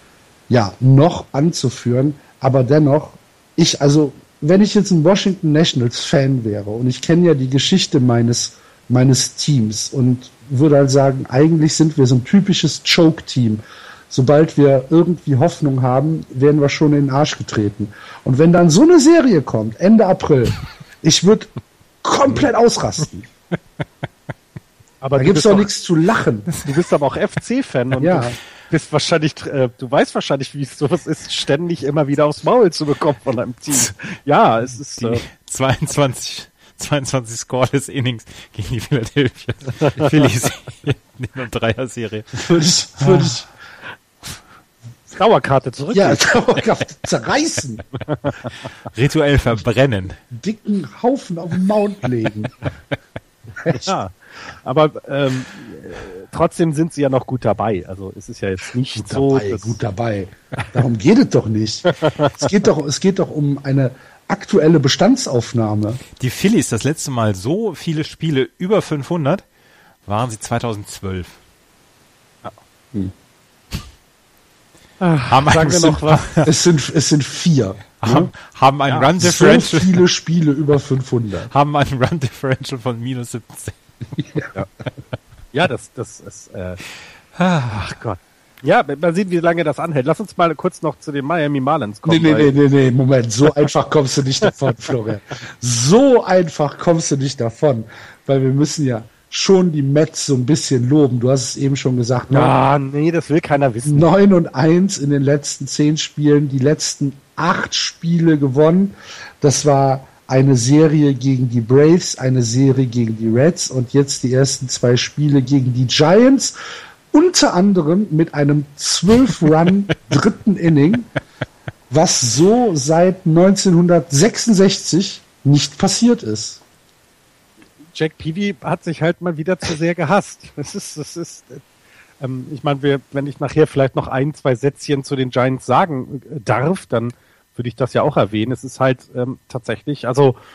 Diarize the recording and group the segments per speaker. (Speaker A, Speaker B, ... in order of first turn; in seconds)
Speaker A: 0.5-21.5, 22.0-23.3, 25.2-26.5, 28.0-28.4, 42.3-43.5, 45.9-47.9, 50.3-52.6, 53.6-53.9, 59.0-66.0, 76.4-78.3, 79.2-81.5, 84.2-84.5, 92.1-102.5, 103.9-116.5, 117.1-121.1, 121.9-126.6
Speaker B: 25.0-25.7, 26.6-35.2, 45.1-46.6, 53.7-54.1, 54.6-59.8, 62.0-62.3, 75.0-76.5, 78.9-79.1, 85.5-86.8, 87.7-92.6, 102.3-104.1, 128.0-131.6, 132.2-140.4
Speaker C: 35.0-42.4, 43.0-43.3, 48.9-50.2, 66.2-69.4, 70.1-71.4, 75.3-76.5, 78.0-80.0, 81.5-83.8, 87.4-87.7